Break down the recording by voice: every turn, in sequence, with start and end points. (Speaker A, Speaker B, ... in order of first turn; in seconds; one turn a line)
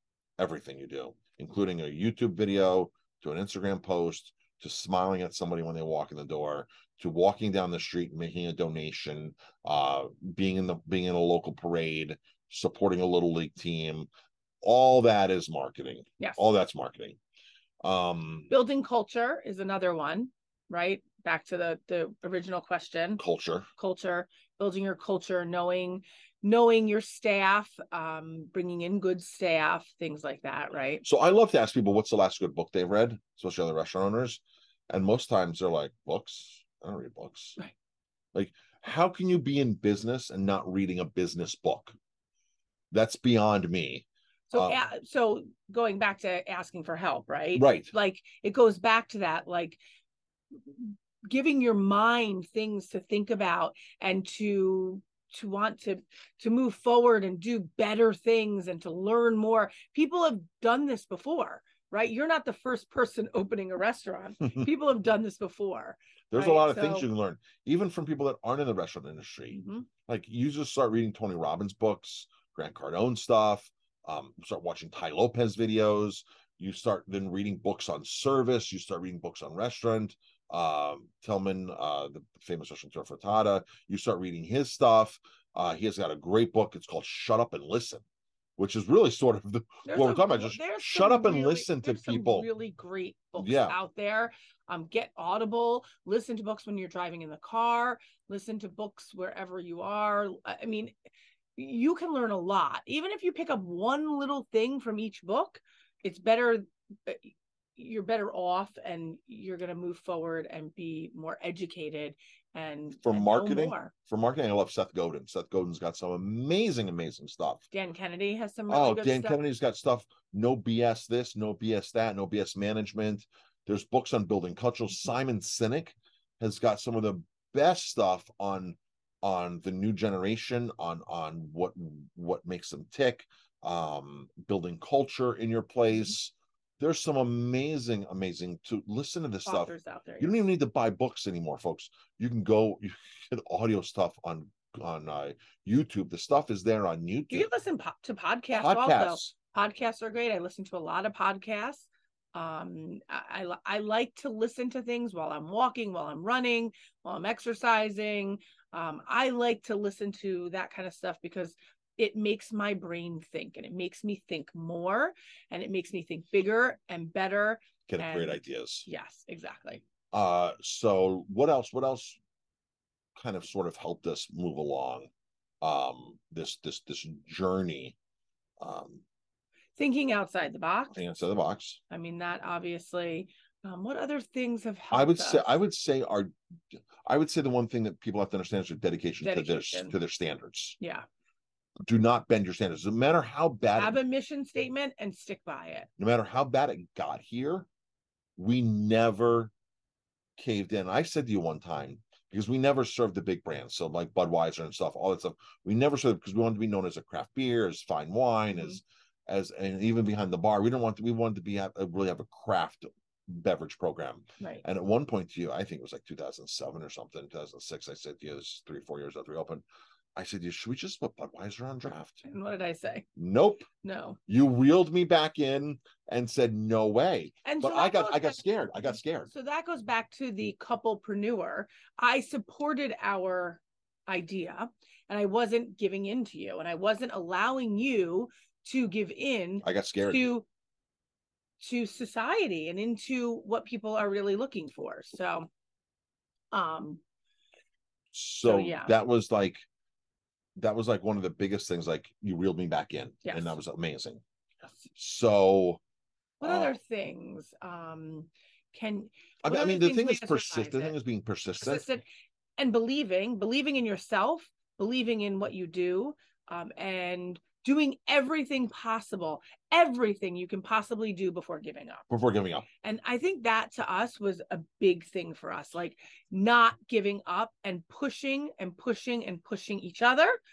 Speaker A: 0.4-14.1
Speaker A: 14.6-17.2
Speaker A: 17.8-18.5
Speaker B: 18.5-23.2
Speaker A: 23.2-23.7
Speaker B: 23.8-31.0
Speaker A: 31.0-37.6
Speaker A: 38.3-42.0
Speaker A: 42.9-44.8
Speaker B: 44.5-49.8
Speaker A: 47.5-47.9
Speaker B: 50.7-67.1
Speaker A: 66.3-88.0
Speaker B: 69.5-69.9
Speaker A: 88.6-92.5
Speaker B: 89.8-100.9
Speaker A: 93.4-93.8
Speaker B: 101.6-113.9
Speaker A: 113.0-117.7
Speaker B: 117.7-119.4
Speaker A: 118.7-147.5
Speaker B: 139.5-140.3
Speaker B: 147.3-169.8
Speaker A: 148.6-149.4
Speaker A: 167.8-168.9
Speaker A: 170.1-172.2
Speaker A: 173.2-175.1
Speaker A: 175.6-178.0
Speaker A: 178.6-179.0
Speaker B: 179.8-181.0
Speaker A: 180.9-181.8
Speaker B: 181.9-185.6
Speaker A: 184.9-186.3
Speaker A: 187.1-190.8
Speaker B: 189.2-189.9
Speaker A: 191.9-194.0
Speaker B: 193.8-195.9
Speaker A: 196.0-197.7
Speaker A: 198.4-199.5
Speaker A: 200.4-219.6
Speaker A: 220.2-222.2
Speaker B: 222.2-223.1
Speaker A: 223.2-223.7
Speaker B: 223.8-224.2
Speaker A: 224.3-229.3
Speaker B: 227.4-240.4
Speaker A: 239.6-240.3
Speaker B: 241.6-245.5
Speaker B: 246.5-247.0
Speaker A: 248.1-249.7
Speaker B: 248.4-248.9
Speaker A: 250.6-254.2
Speaker B: 253.2-253.6
Speaker A: 254.9-255.8
Speaker B: 256.4-260.9
Speaker A: 256.4-256.8
Speaker A: 259.4-261.9
Speaker B: 261.6-262.1
Speaker B: 262.6-272.1
Speaker A: 272.1-272.7
Speaker B: 272.8-280.4